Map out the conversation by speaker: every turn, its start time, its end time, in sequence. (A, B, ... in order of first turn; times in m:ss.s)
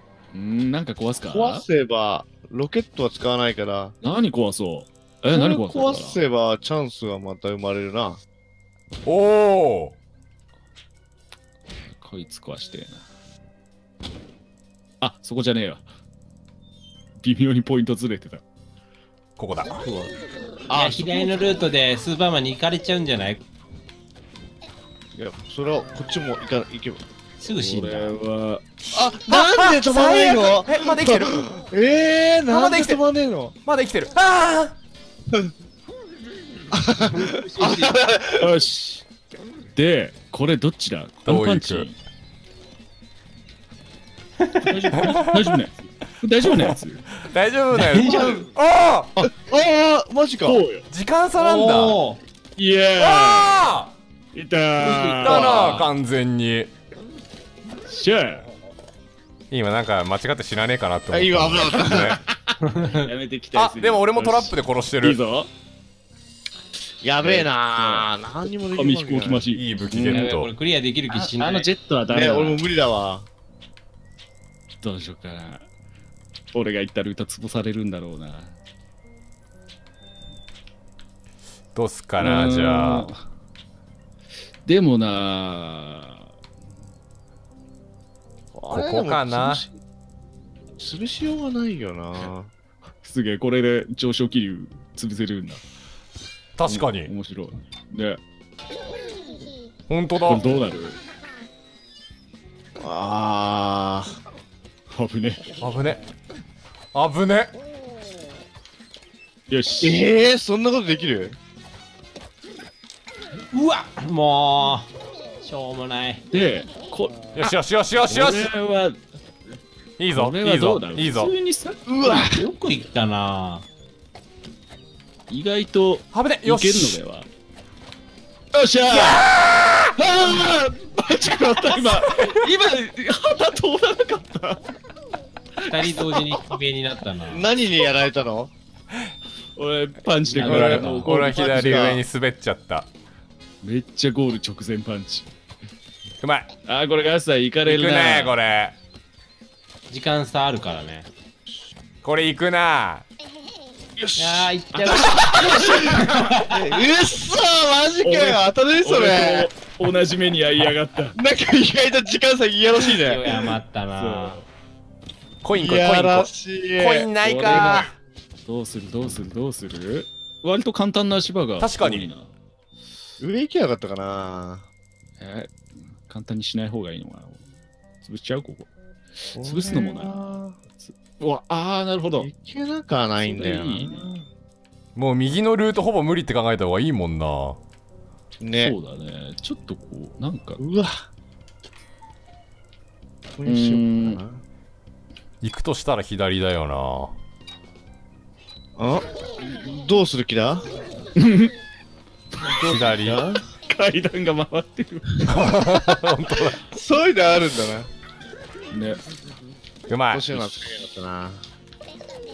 0:00.3-0:01.7 A
0:01.3-0:04.0 B
0:04.0-0:06.2 A
0:05.3-0:08.2 B
0:09.1-0:10.0 C
0:11.9-0:13.0 A
0:15.0-0:15.8 A
0:17.2-0:18.4 A
0:19.4-0:19.9 C
0:20.7-0:21.6 B
0:20.7-0:23.4 D
0:25.1-0:27.0 B
0:27.4-0:28.2 D
0:27.6-0:28.6 A
0:28.9-0:31.4 C
0:28.9-0:33.6 B
0:32.5-0:33.0 C
0:33.6-0:34.8 C
0:36.7-0:38.6 B
0:37.1-0:38.0 D
0:38.4-0:39.0 A
0:39.8-0:42.0 A
0:41.3-0:41.9 C
0:44.4-0:44.9 D
0:44.6-0:47.0 A
0:45.0-0:45.6 C
0:46.4-0:49.1 C
0:47.7-0:48.5 D
0:49.2-0:50.6 B
0:50.5-0:50.9 A
0:50.9-0:52.0 C
0:51.4-0:52.2 D
0:52.6-0:53.6 A
0:53.0-0:53.9 C
0:54.3-0:55.5 A
0:54.8-0:55.9 D
0:55.2-0:56.7 C
0:55.3-0:55.9 B
0:57.9-0:58.5 A
0:59.5-1:02.2 C
1:01.1-1:02.2 B
1:02.6-1:03.1 D
1:02.8-1:05.5 A
1:03.6-1:05.2 C
1:07.0-1:09.5 B
1:07.2-1:08.1 A
1:08.7-1:10.3 A
1:09.5-1:10.5 C
1:10.1-1:11.7 D
1:11.1-1:12.6 A
1:12.1-1:13.3 B
1:14.8-1:15.6 A
1:16.5-1:18.6 A
1:21.8-1:23.1 C
1:22.2-1:23.2 A
1:24.7-1:26.2 A
1:28.5-1:29.7 B
1:28.7-1:29.6 C
1:30.8-1:32.5 B
1:33.0-1:35.6 A
1:36.6-1:37.1 C
1:36.7-1:38.2 A
1:39.9-1:40.4 C
1:40.2-1:41.0 A
1:42.8-1:44.2 B
1:44.9-1:45.5 A
1:45.6-1:46.0 C
1:46.9-1:47.5 C
1:49.5-1:50.0 A
1:49.8-1:51.4 B
1:53.5-1:54.9 D
1:55.4-1:56.2 D
1:56.3-1:57.6 A
1:57.4-1:58.5 C
1:58.1-1:59.0 A
2:00.0-2:01.3 C
2:00.2-2:01.8 A
2:01.9-2:02.4 B
2:02.0-2:03.6 D
2:05.3-2:07.3 A
2:06.1-2:07.0 C
2:08.5-2:09.4 A
2:08.9-2:09.2 D
2:09.4-2:09.9 C
2:10.0-2:14.6 A
2:11.9-2:12.4 C
2:15.6-2:16.4 A
2:15.7-2:17.5 D
2:17.3-2:18.5 B
2:19.6-2:21.9 A
2:20.3-2:22.0 B
2:20.4-2:22.9 C
2:23.6-2:25.3 A
2:26.2-2:26.5 C
2:26.7-2:28.4 A
2:27.6-2:28.8 C
2:29.9-2:31.1 D
2:32.0-2:33.0 C
2:34.0-2:34.5 B
2:34.2-2:36.8 D
2:34.8-2:36.3 A
2:35.0-2:35.2 C
2:35.2-2:39.5 B
2:38.0-2:41.2 A
2:41.2-2:43.3 B
2:42.9-2:44.4 D
2:44.0-2:44.5 A
2:45.4-2:47.9 C
2:45.6-2:47.8 B
2:47.2-2:47.9 A
2:48.5-2:52.3 A
2:51.6-2:52.1 C
2:53.2-2:54.7 B
2:55.2-2:57.4 A
2:58.0-2:58.7 A
2:59.3-3:00.2 A
2:59.4-3:00.6 B
3:00.8-3:02.3 A
3:02.2-3:04.1 B
3:03.2-3:04.2 A
3:05.0-3:07.6 C
3:08.4-3:08.8 B
3:08.6-3:10.6 A
3:10.6-3:11.1 B
3:13.4-3:14.4 B
3:13.4-3:14.2 A
3:15.4-3:17.1 C
3:18.8-3:20.6 B
3:21.2-3:21.5 A
3:22.4-3:23.4 B
3:22.6-3:23.2 C
3:23.7-3:25.3 A
3:25.3-3:26.6 C
3:25.4-3:26.0 B
3:26.6-3:27.9 B
3:28.7-3:29.0 A
3:29.9-3:30.5 C
3:30.1-3:31.4 B